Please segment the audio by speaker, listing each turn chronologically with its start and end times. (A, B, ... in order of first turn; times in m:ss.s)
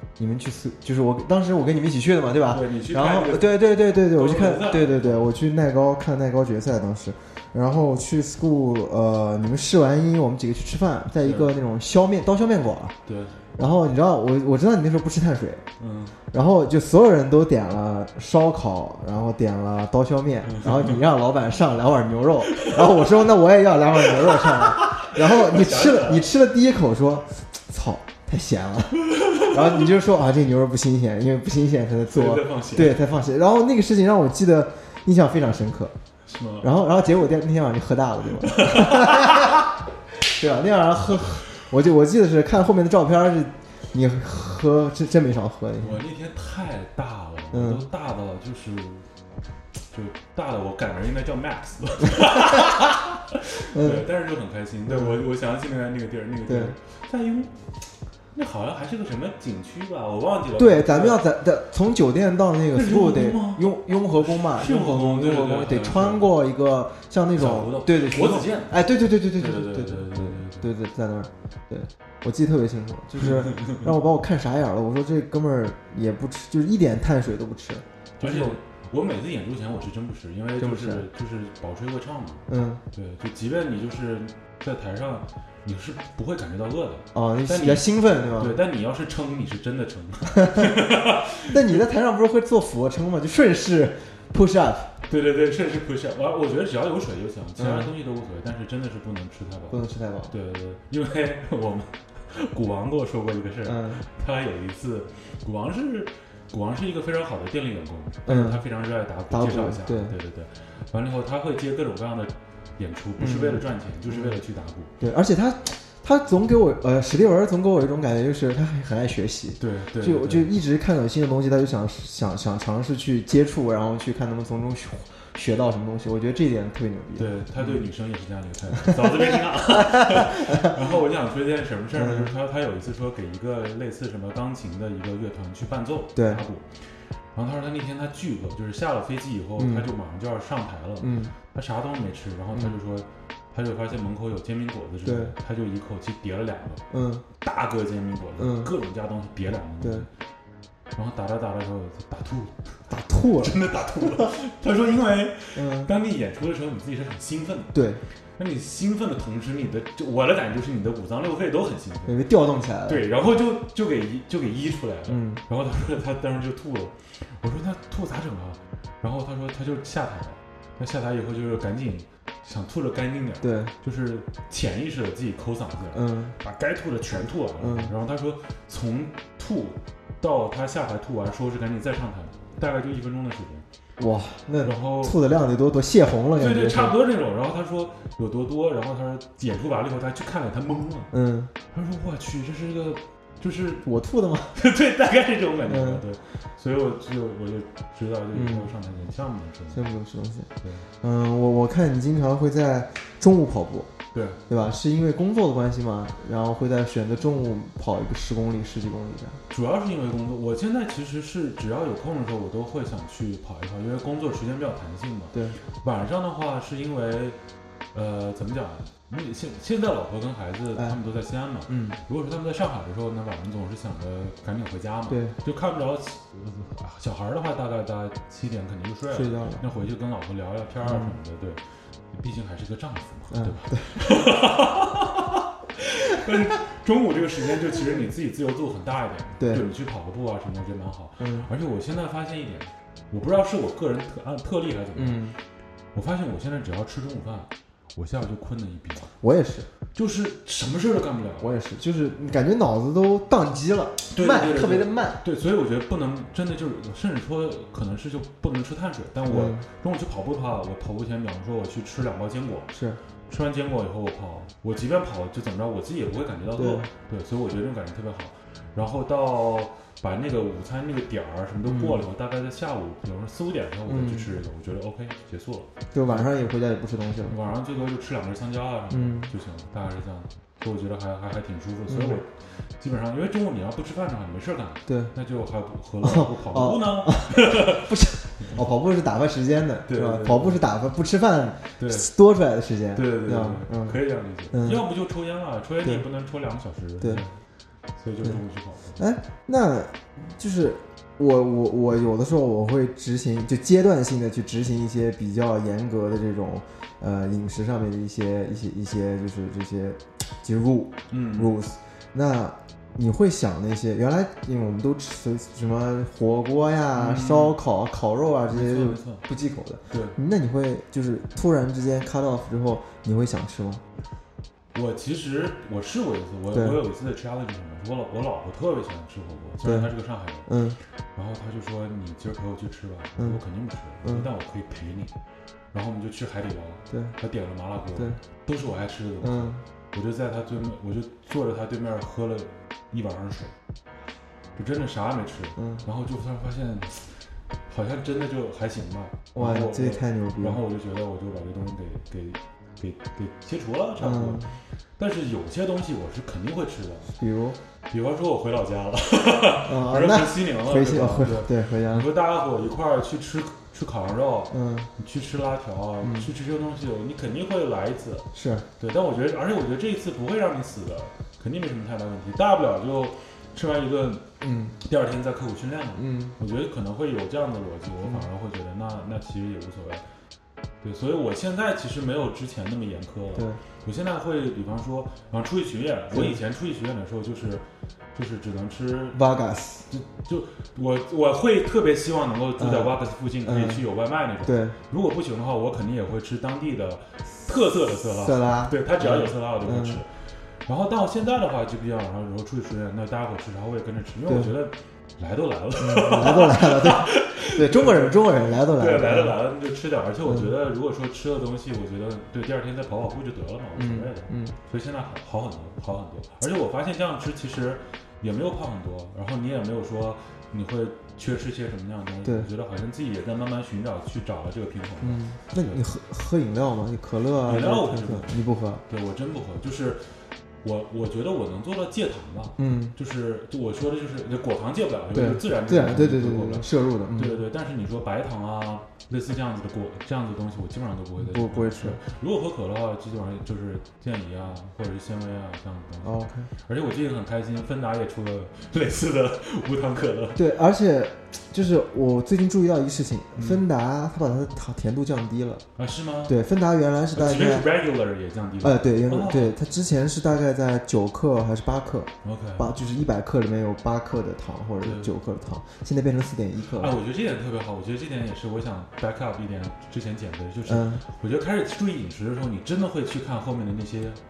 0:00.2-0:13.0 A
0:02.5-0:05.3 B
0:11.2-0:11.5 B
0:13.0-0:13.4 B
0:13.6-0:15.7 A
0:15.8-0:16.2 B
0:16.3-0:35.9 A
0:20.5-0:21.0 B
0:22.5-0:23.1 B
0:24.1-0:26.3 B
0:29.0-0:29.9 B
0:32.1-0:33.0 B
0:36.2-0:36.7 B
0:36.6-0:39.6 A
0:38.4-0:39.7 B
0:40.2-0:46.0 A
0:45.8-0:49.1 B
0:47.5-0:47.8 A
0:49.9-0:57.7 B
0:52.2-0:52.7 A
0:53.7-0:54.0 A
0:54.9-0:55.2 A
0:56.5-0:56.7 A
0:58.3-1:01.2 B
1:00.6-1:18.6 A
1:02.7-1:06.3 B
1:07.4-1:10.7 B
1:13.2-1:13.9 B
1:18.2-1:31.8 B
1:20.6-1:21.1 A
1:22.5-1:22.8 A
1:27.1-1:28.6 A
1:30.4-1:30.8 A
1:31.5-1:34.9 A
1:35.1-1:54.9 B
1:37.6-1:37.9 A
1:39.7-1:40.3 A
1:43.6-1:44.0 A
1:48.3-1:48.6 A
1:49.3-1:50.1 A
1:53.2-1:54.4 A
1:55.0-2:07.8 A
1:59.6-2:00.5 B
2:07.2-2:26.8 B
2:08.8-2:10.8 A
2:11.9-2:12.3 A
2:16.2-2:16.4 A
2:19.6-2:19.9 A
2:21.0-2:21.3 A
2:25.0-2:25.4 A
2:26.9-2:27.2 A
2:27.4-2:30.1 B
2:28.4-2:28.7 A
2:29.8-2:30.1 A
2:31.0-2:37.8 B
2:32.9-2:33.6 A
2:35.6-2:35.9 A
2:37.7-2:38.0 A
2:38.4-2:42.2 B
2:42.1-2:43.0 A
2:42.9-3:03.7 B
2:45.1-2:45.4 A
2:53.4-2:53.7 A
2:55.9-2:56.4 A
2:57.6-2:57.9 A
3:04.0-3:06.9 A
3:04.6-3:05.2 B
3:06.4-3:11.1 B
3:11.1-3:11.5 A
3:11.7-3:13.9 B
3:13.8-3:14.6 A
3:14.5-3:19.8 B
3:15.7-3:16.0 A
3:18.3-3:18.7 A
3:19.7-3:20.5 A
3:21.0-3:23.9 A
3:24.1-3:24.4 B
3:24.5-3:29.4 A
3:29.5-3:37.4 B
3:35.3-3:35.6 A
3:37.9-4:05.3 B
3:41.7-3:42.0 A
3:45.1-3:45.4 A
3:49.1-3:49.6 A
3:50.8-3:51.2 A
3:53.3-3:54.0 A
3:59.4-3:59.6 A
4:01.2-4:01.5 A
4:05.0-4:05.4 A
4:05.9-4:09.1 B
4:09.2-4:09.7 A
4:10.0-4:11.5 B
4:11.4-4:15.2 A
4:14.1-4:22.7 B
4:19.3-4:19.6 A
4:22.7-4:23.0 A
4:23.3-4:36.3 B
4:26.6-4:26.9 A
4:31.6-4:32.0 A
4:33.9-4:34.3 A
4:35.9-4:37.4 A
4:37.2-4:48.6 B
4:38.9-4:39.3 A
4:41.9-4:42.2 A
4:44.9-4:45.1 A
4:46.0-4:54.0 A
4:49.9-4:50.6 B
4:51.8-4:52.1 B
4:52.9-4:57.4 B
4:54.5-4:54.8 A
4:58.0-4:59.0 B
4:59.0-5:23.8 A
5:11.1-5:11.6 B
5:17.0-5:17.6 B
5:18.5-5:19.2 B
5:19.9-5:20.2 B
5:24.7-5:30.5 B
5:26.5-5:26.8 A
5:29.6-5:29.9 A
5:30.5-5:30.8 A
5:31.1-5:35.1 B
5:35.7-5:43.6 B
5:36.9-5:37.2 A
5:39.2-5:39.6 A
5:44.6-5:57.1 B
5:45.6-5:45.8 A
5:49.4-5:50.6 A
5:54.0-5:54.5 A
5:57.1-5:57.6 A
5:57.9-6:20.0 B
5:59.6-6:02.1 A
6:04.5-6:04.9 A
6:06.0-6:06.3 A
6:08.3-6:08.7 A
6:14.4-6:14.8 A
6:16.0-6:16.4 A
6:20.8-6:29.2 B
6:29.1-6:29.9 A
6:29.9-7:05.8 B
6:32.6-6:33.8 A
6:34.4-6:34.8 A
6:38.2-6:40.0 A
6:45.8-6:49.4 A
6:50.2-6:50.5 A
6:53.8-6:54.6 A
7:05.0-7:08.8 A
7:07.5-7:30.4 B
7:12.6-7:13.0 A
7:15.1-7:17.4 A
7:21.2-7:22.0 A
7:26.0-7:26.5 A
7:30.4-7:35.6 A
7:33.4-7:33.6 B
7:35.8-7:36.4 B
7:36.3-7:37.7 A
7:37.1-7:39.6 B
7:38.6-7:46.9 A
7:42.2-7:42.7 B
7:44.8-7:45.1 B
7:46.7-7:54.2 B
7:50.7-7:51.0 A